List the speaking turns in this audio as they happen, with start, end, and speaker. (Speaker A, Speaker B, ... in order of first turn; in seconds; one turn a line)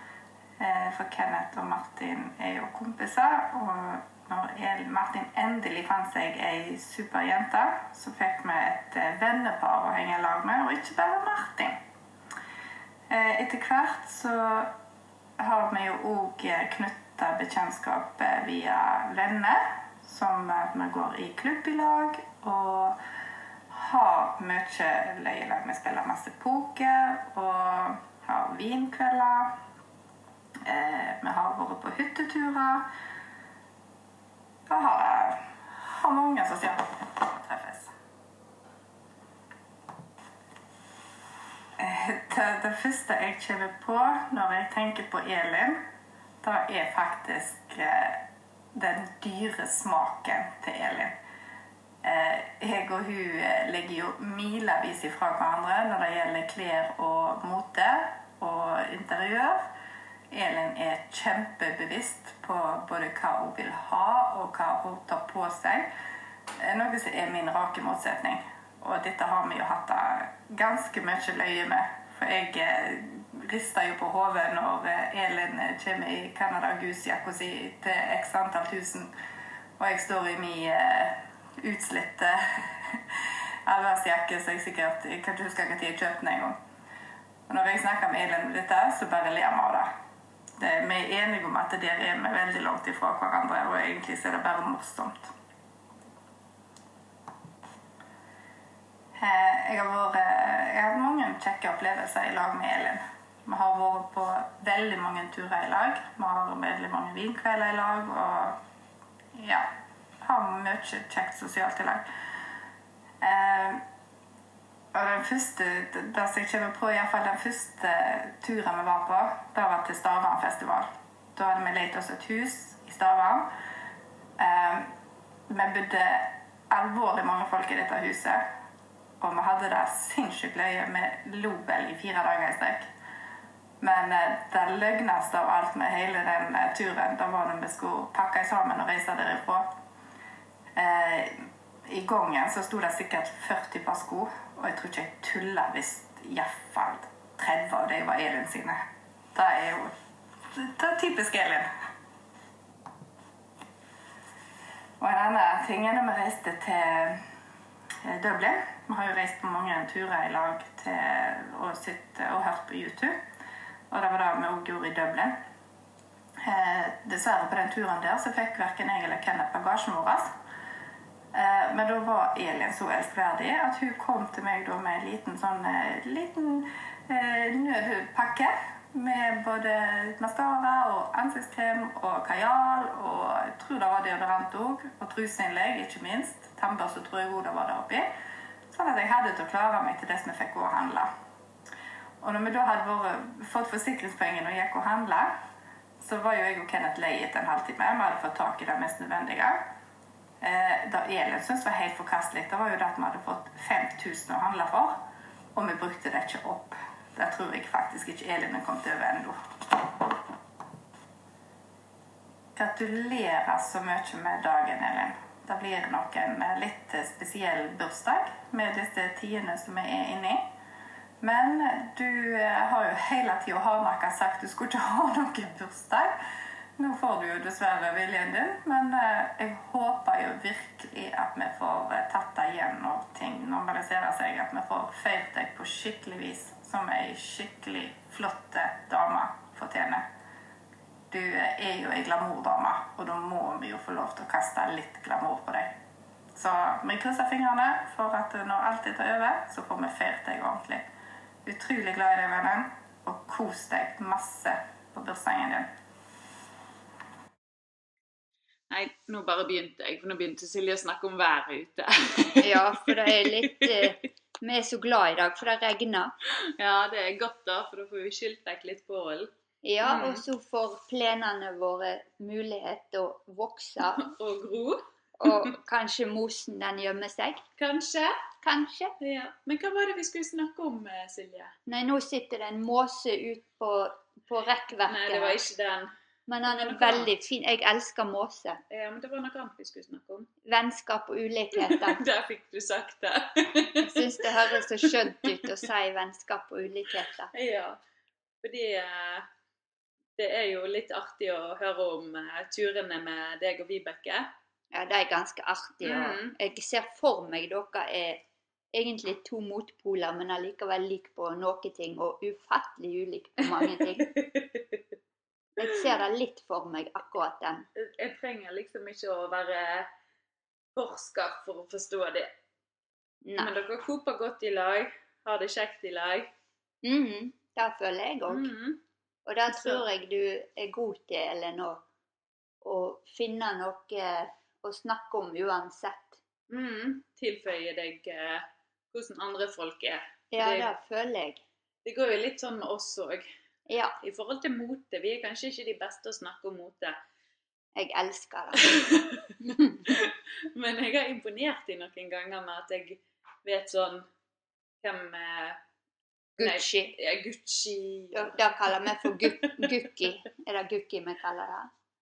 Speaker A: 0.6-11.8
Speaker A: 13.1-14.7
Speaker A: 15.4-23.0
Speaker A: 23.7-29.6
Speaker A: 30.6-32.9
Speaker A: 34.7-37.9
Speaker A: 41.8-45.8
Speaker A: 46.4-48.2
Speaker A: 48.7-51.1
Speaker A: 52.0-59.6
Speaker A: 60.3-65.9
Speaker A: 66.6-79.1
Speaker A: 79.8-83.0
Speaker A: 83.7-86.6
Speaker A: 87.5-89.9
Speaker A: 90.6-95.3
Speaker A: 99.2-108.6
Speaker A: 109.3-109.7
Speaker A: 110.2-112.0
Speaker A: 113.2-113.8
Speaker A: 114.9-123.5
Speaker A: 124.4-124.9
Speaker A: 125.5-128.4
Speaker A: 129.2-132.9
Speaker A: 133.8-139.7
Speaker A: 140.7-148.8
Speaker A: 149.3-149.9
Speaker A: 150.5-151.7
Speaker A: 155.0-157.2
Speaker A: 158.0-163.2
Speaker A: 163.9-165.4
Speaker A: 166.4-170.3
Speaker A: 171.3-188.1
Speaker A: 188.7-191.1
Speaker A: 192.2-195.3
Speaker A: 196.0-199.7
Speaker A: 200.4-205.0
Speaker A: 205.5-209.4
Speaker A: 212.6-220.5
Speaker A: 221.2-226.2
Speaker A: 226.8-240.1
Speaker A: 241.1-245.7
Speaker A: 246.3-250.9
Speaker A: 251.4-255.7
Speaker B: 258.7-262.9
Speaker C: 262.4-266.1
Speaker B: 266.6-269.3
Speaker C: 269.6-274.0
Speaker B: 269.8-270.2
Speaker B: 273.9-275.5
Speaker C: 275.2-277.4
Speaker B: 277.6-278.2
Speaker C: 278.4-278.9
Speaker B: 279.0-281.5
Speaker C: 281.7-285.4
Speaker B: 284.9-285.9
Speaker C: 286.3-288.6
Speaker B: 286.4-287.1
Speaker B: 288.7-290.3
Speaker C: 290.4-292.0
Speaker B: 291.5-294.5
Speaker C: 293.8-297.3
Speaker B: 297.3-297.8
Speaker B: 298.4-299.3
Speaker B: 300.2-304.3
Speaker C: 304.7-308.2
Speaker B: 305.8-306.3
Speaker C: 308.7-314.1
Speaker B: 313.4-314.8
Speaker C: 315.6-317.7
Speaker B: 317.8-319.9
Speaker B: 320.7-322.3
Speaker C: 323.2-323.6
Speaker B: 323.4-326.3
Speaker C: 326.8-328.5
Speaker B: 328.3-328.8
Speaker C: 329.2-331.8
Speaker B: 329.5-329.8
Speaker C: 332.6-336.2
Speaker B: 336.5-340.7
Speaker C: 340.3-341.4
Speaker B: 341.8-343.3
Speaker C: 343.7-343.9
Speaker B: 344.0-346.9
Speaker C: 347.8-349.8
Speaker B: 348.7-349.2
Speaker B: 349.9-354.1
Speaker B: 354.8-355.6
Speaker C: 356.4-356.9
Speaker B: 356.4-358.4
Speaker C: 358.1-361.7
Speaker B: 359.1-359.7